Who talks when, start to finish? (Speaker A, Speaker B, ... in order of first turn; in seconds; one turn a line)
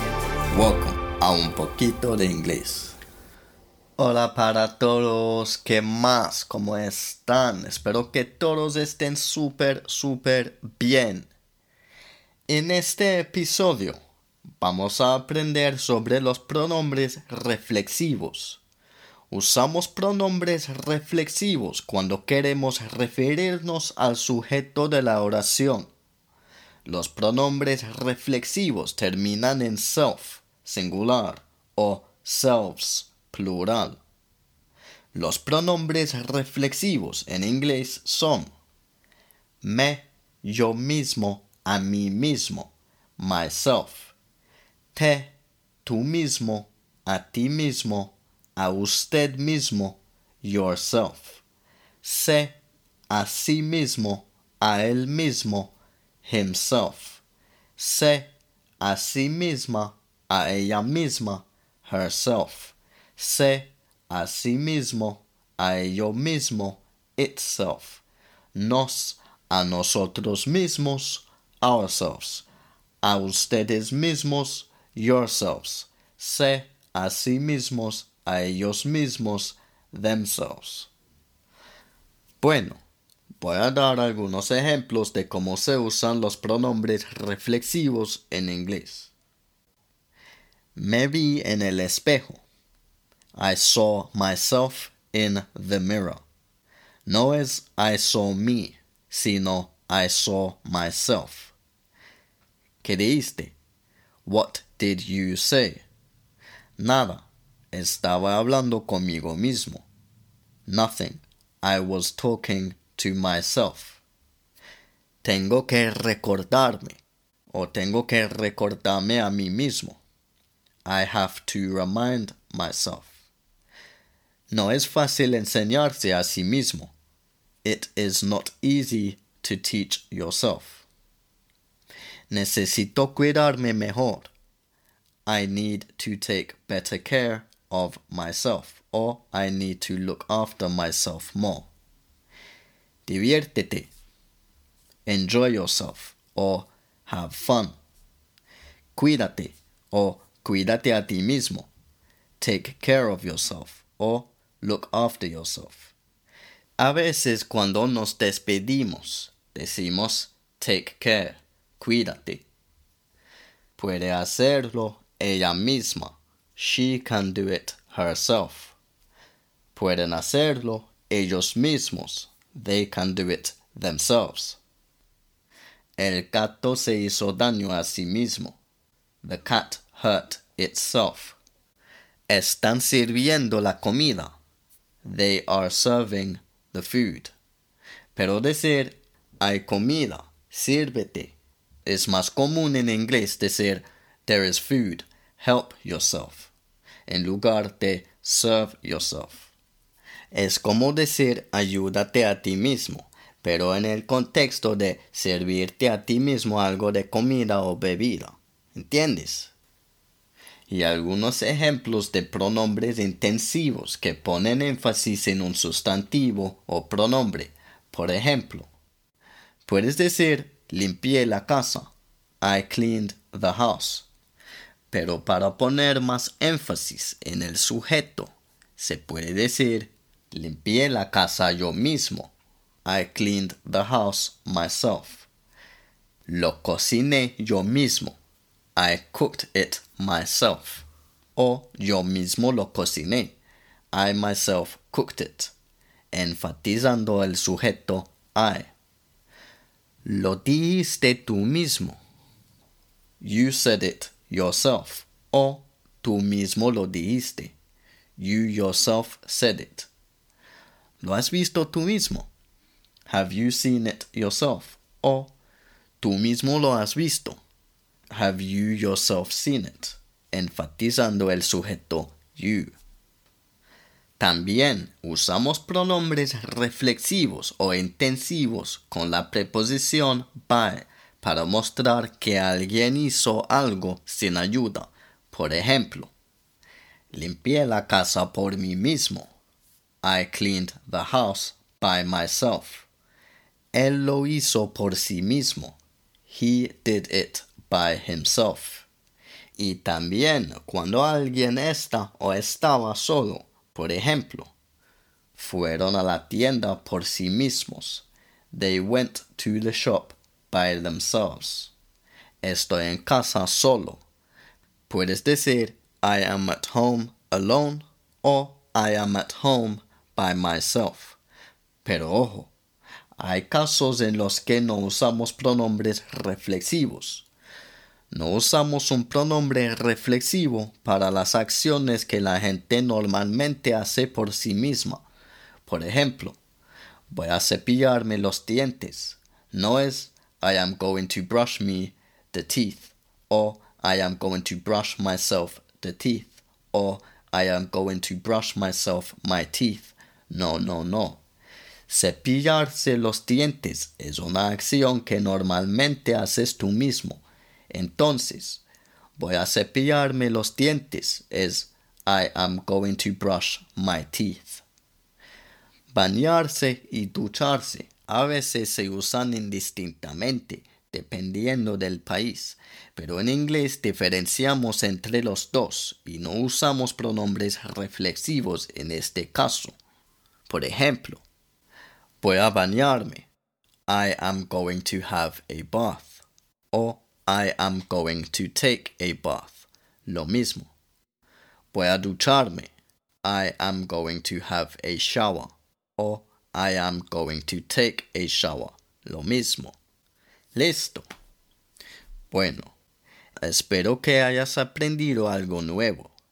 Speaker A: 0.5-3.0
Speaker A: 4.0-11.3
Speaker A: 12.5-14.0
Speaker A: 14.6-18.6
Speaker A: 19.3-25.9
Speaker A: 26.8-34.0
Speaker A: 35.1-38.5
Speaker A: 39.6-44.1
Speaker A: 44.9-45.3
Speaker A: 45.8-51.4
Speaker A: 52.0-52.5
Speaker A: 53.1-55.7
Speaker A: 56.2-57.2
Speaker A: 57.8-68.0
Speaker A: 68.5-72.5
Speaker A: 73.0-80.9
Speaker A: 82.4-82.8
Speaker A: 83.4-89.1
Speaker A: 90.8-92.4
Speaker A: 93.3-96.2
Speaker A: 97.0-101.5
Speaker A: 102.8-103.5
Speaker A: 104.2-105.8
Speaker A: 106.8-109.8
Speaker A: 110.7-114.0
Speaker A: 115.2-120.0
Speaker A: 120.8-123.1
Speaker A: 124.5-126.9
Speaker A: 127.6-130.8
Speaker A: 132.3-134.3
Speaker A: 135.2-141.7
Speaker A: 143.1-143.9
Speaker A: 145.1-147.8
Speaker A: 148.9-151.7
Speaker A: 152.4-155.9
Speaker A: 156.8-162.4
Speaker A: 163.8-168.8
Speaker A: 169.7-174.6
Speaker A: 176.0-178.6
Speaker A: 179.2-181.4
Speaker A: 182.3-184.3
Speaker A: 185.0-187.3
Speaker A: 188.1-196.5
Speaker A: 197.1-199.5
Speaker A: 200.3-209.5
Speaker A: 210.7-218.7
Speaker A: 219.6-224.1
Speaker A: 224.9-232.3
Speaker A: 232.8-235.3
Speaker A: 236.3-238.2
Speaker A: 238.8-243.3
Speaker A: 243.9-245.5
Speaker A: 246.1-248.7
Speaker A: 250.0-252.0
Speaker A: 253.2-257.5
Speaker A: 258.2-259.9
Speaker A: 261.0-262.3
Speaker A: 263.1-265.3
Speaker A: 266.0-267.4
Speaker A: 268.1-272.7
Speaker A: 274.2-286.1
Speaker A: 287.1-289.3
Speaker A: 290.0-292.9
Speaker A: 293.7-298.9
Speaker A: 299.6-304.5
Speaker A: 305.3-311.7
Speaker A: 312.4-314.0
Speaker A: 314.9-321.2
Speaker A: 321.8-322.5
Speaker A: 323.1-327.2
Speaker A: 328.1-335.0
Speaker A: 335.6-336.4
Speaker A: 337.1-351.2
Speaker A: 351.9-358.6
Speaker A: 359.2-364.6
Speaker A: 365.9-379.8
Speaker A: 380.5-381.2
Speaker A: 382.2-383.3
Speaker A: 383.9-390.7
Speaker A: 391.7-392.7
Speaker A: 393.2-399.8
Speaker A: 400.5-401.1
Speaker A: 402.3-402.7
Speaker A: 403.4-406.1